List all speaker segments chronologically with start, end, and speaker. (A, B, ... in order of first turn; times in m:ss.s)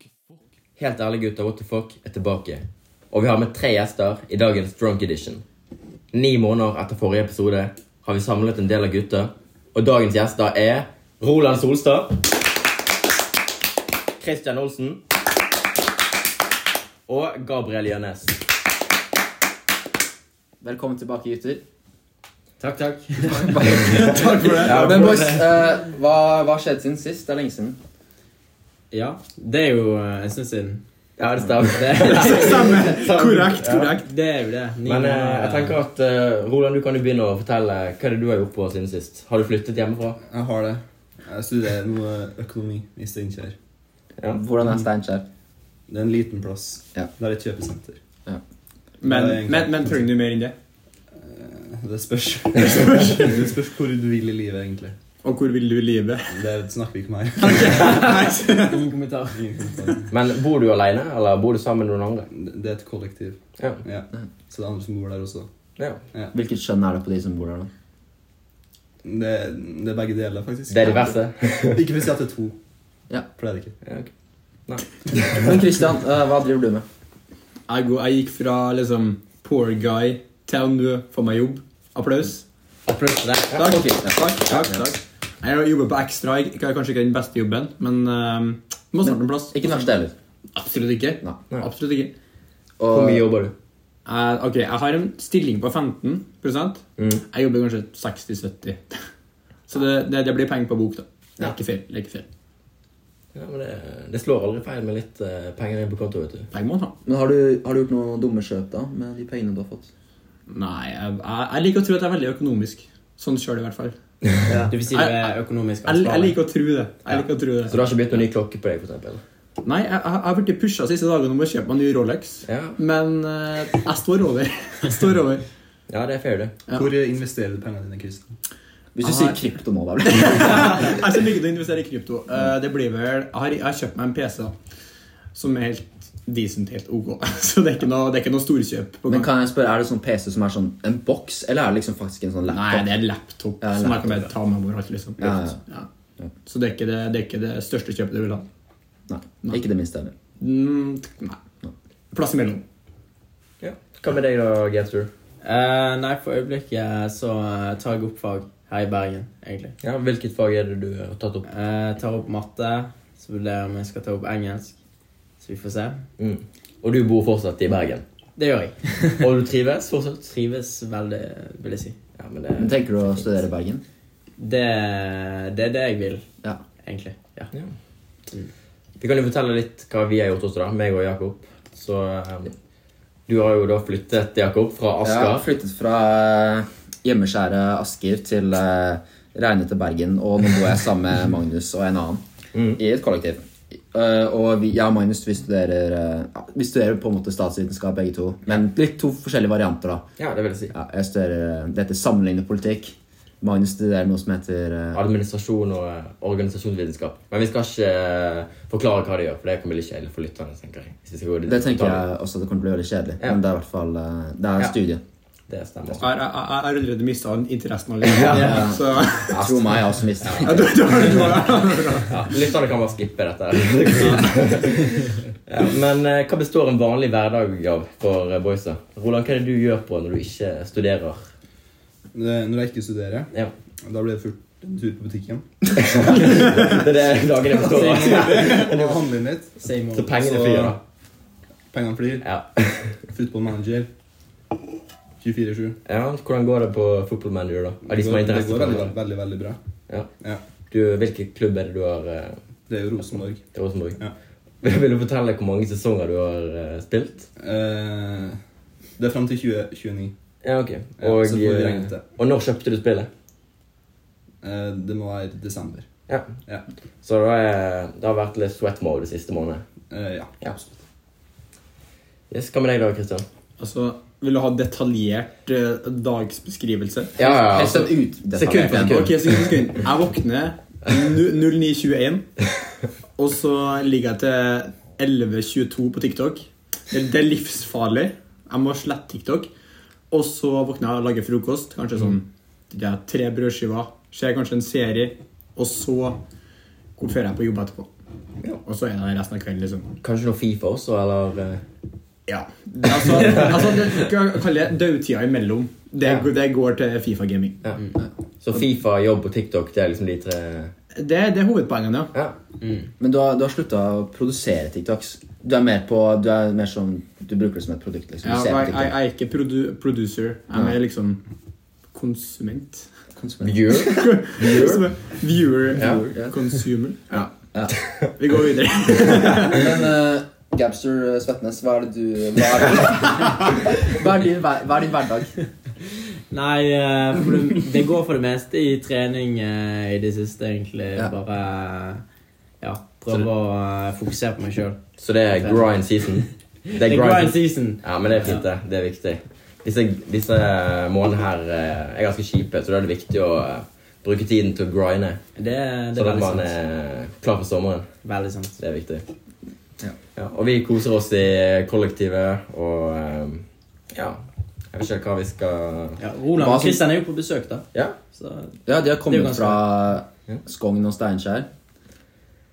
0:00.8-0:05.4 A
0:06.1-0:12.3 A
0:14.2-0:15.0 A
0:17.1-0:18.4 A
0:20.6-0:21.6 B
0:22.6-0:23.6 C
0:23.3-0:27.8 B
0:23.7-0:25.3 D
0:24.6-0:25.4 A
0:28.9-0:30.8 C
0:31.2-0:34.0 A
0:31.7-0:32.9 C
0:32.1-0:34.1 E
0:34.0-0:35.8 C
0:34.8-0:40.2 A
0:40.2-0:43.6 D
0:44.3-0:45.3 B
0:45.9-0:48.0 D
0:49.0-0:50.5 E
0:49.0-0:50.0 D
0:51.1-0:55.0 D
0:52.7-0:53.3 E
0:55.2-0:56.4 E
0:56.3-0:58.1 D
0:57.4-0:58.8 E
0:57.7-0:59.7 C
0:59.3-1:00.1 D
1:00.1-1:02.3 A
1:02.3-1:05.5 D
1:06.3-1:07.7 B
1:09.0-1:12.6 D
1:10.7-1:11.9 A
1:13.4-1:13.8 D
1:13.8-1:14.1 A
1:14.7-1:15.6 A
1:15.3-1:16.8 B
1:17.7-1:22.4 E
1:22.9-1:23.3 C
1:23.5-1:29.8 E
1:23.6-1:24.9 B
1:29.0-1:30.1 B
1:30.6-1:32.1 E
1:32.8-1:33.3 B
1:32.9-1:33.5 A
1:34.1-1:38.9 E
1:39.7-1:42.3 E
1:43.3-1:46.5 A
1:46.5-1:46.9 E
1:47.0-1:49.9 B
1:50.5-1:54.0 E
1:54.5-1:56.4 C
1:54.9-1:55.2 E
1:55.8-1:57.8 E
1:57.7-1:59.2 A
1:59.6-2:05.4 E
2:02.5-2:02.8 A
2:05.9-2:06.6 A
2:06.7-2:08.3 D
2:09.0-2:11.0 B
2:09.0-2:09.4 E
2:10.1-2:14.5 E
2:15.4-2:19.3 E
2:19.1-2:22.9 B
2:22.5-2:25.9 E
2:23.6-2:24.3 B
2:25.2-2:25.6 B
2:26.5-2:28.4 E
2:29.1-2:30.1 B
2:30.4-2:31.4 E
2:32.1-2:32.6 E
2:33.6-2:35.1 A
2:35.4-2:39.8 C
2:39.8-2:41.5 A
2:41.5-2:44.8 C
2:45.4-2:46.0 C
2:46.2-2:48.0 A
2:48.4-2:49.3 C
2:49.2-2:50.4 A
2:50.3-2:52.0 C
2:52.2-2:53.2 A
2:52.6-2:53.8 B
2:54.4-2:56.2 C
2:56.8-2:57.5 C
2:59.0-3:02.5 A
3:03.3-3:05.4 A
3:05.0-3:12.2 B
3:12.5-3:12.8 A
3:12.8-3:20.0 B
3:20.2-3:20.7 A
3:20.7-3:25.0 B
3:24.9-3:32.0 A
3:31.5-3:35.0 B
3:35.5-3:36.0 A
3:36.0-3:39.5 E
3:38.0-3:38.7 A
3:38.3-3:41.0 B
3:40.2-3:40.6 A
3:40.4-3:42.3 E
3:42.1-3:51.3 A
3:44.0-3:44.3 E
3:52.1-3:53.3 D
3:53.8-3:56.6 D
3:55.8-3:59.0 A
3:57.6-3:59.6 D
3:57.8-3:58.5 C
3:59.6-4:00.2 C
3:59.9-4:00.8 A
4:00.2-4:00.8 D
4:01.7-4:02.3 D
4:02.2-4:03.0 A
4:03.1-4:03.9 D
4:05.2-4:05.8 D
4:05.9-4:08.9 A
4:07.9-4:09.6 D
4:10.7-4:12.4 A
4:12.7-4:13.4 D
4:13.5-4:14.0 A
4:14.6-4:17.3 A
4:17.4-4:18.4 D
4:19.0-4:20.2 D
4:20.4-4:23.1 A
4:21.0-4:22.0 D
4:24.4-4:25.9 D
4:27.0-4:29.6 A
4:29.9-4:30.8 D
4:32.3-4:33.2 A
4:33.6-4:37.1 E
4:37.2-4:39.3 A
4:37.2-4:39.1 B
4:38.5-4:42.2 E
4:43.2-4:49.5 E
4:50.1-4:56.2 E
4:57.0-4:57.9 E
4:58.6-4:59.9 E
5:00.0-5:01.6 A
5:02.3-5:07.6 E
5:03.0-5:03.9 A
5:08.4-5:10.7 A
5:11.0-5:12.1 E
5:12.6-5:12.9 C
5:13.0-5:18.9 B
5:18.2-5:21.2 E
5:21.9-5:22.9 E
5:23.2-5:24.6 B
5:23.4-5:24.8 A
5:23.7-5:27.0 E
5:25.8-5:26.0 A
5:25.8-5:26.4 B
5:27.1-5:28.1 A
5:28.2-5:29.7 E
5:29.4-5:35.3 B
5:36.3-5:42.0 C
5:42.6-5:44.8 C
5:45.0-5:55.2 A
5:45.3-5:48.5 C
5:55.4-5:56.5 C
5:56.0-5:57.9 A
5:58.0-5:58.6 C
5:58.6-5:59.0 A
6:00.2-6:06.0 A
6:06.0-6:08.6 C
6:06.4-6:06.9 B
6:08.7-6:11.5 B
6:09.1-6:09.6 C